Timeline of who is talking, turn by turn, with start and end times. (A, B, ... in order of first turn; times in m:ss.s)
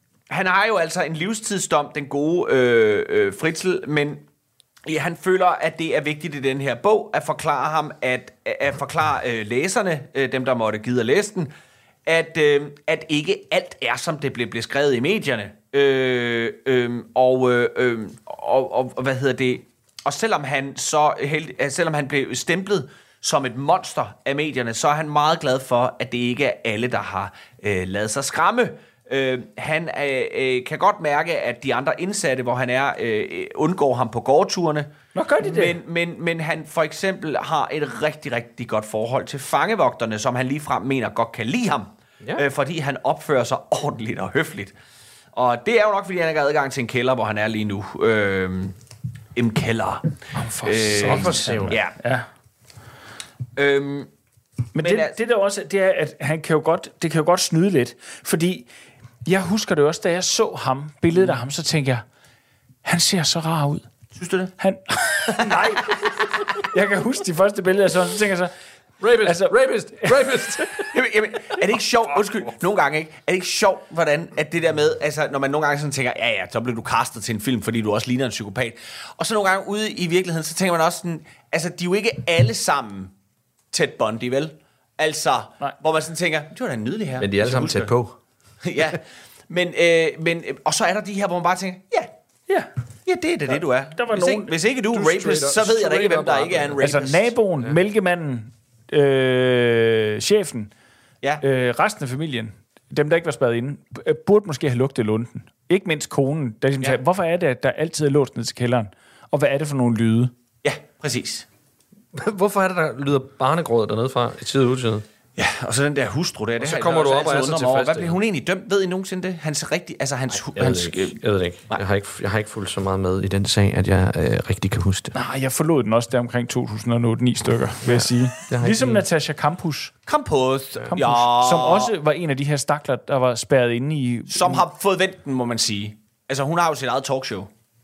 0:00.3-0:04.2 A
0:04.8-0:11.5 A
0:12.0-0:44.7 A
0:35.1-0:35.7 B
0:45.3-0:48.7 A
0:49.3-0:52.0 A
0:50.3-0:52.2 B
0:50.9-0:51.8 C
0:53.6-0:54.1 A
0:54.7-0:58.7 B
0:54.8-0:55.2 A
0:59.2-1:02.0 B
1:02.8-1:03.8 B
1:04.2-1:04.5 A
1:04.6-1:08.5 B
1:09.0-1:10.9 C
1:09.2-1:10.3 B
1:10.9-1:23.1 A
1:23.7-1:27.9 A
1:27.2-1:28.1 C
1:28.6-1:32.1 A
1:33.0-1:37.3 A
1:33.5-1:34.5 B
1:34.9-1:36.9 C
1:36.8-1:40.7 B
1:41.4-1:50.3 B
1:50.6-1:51.4 A
1:52.1-1:55.0 C
1:55.4-2:01.8 A
1:56.6-1:58.2 C
2:00.3-2:05.2 C
2:05.1-2:09.9 B
2:07.8-2:09.0 C
2:10.1-2:11.9 A
2:10.9-2:14.6 B
2:14.3-2:17.5 A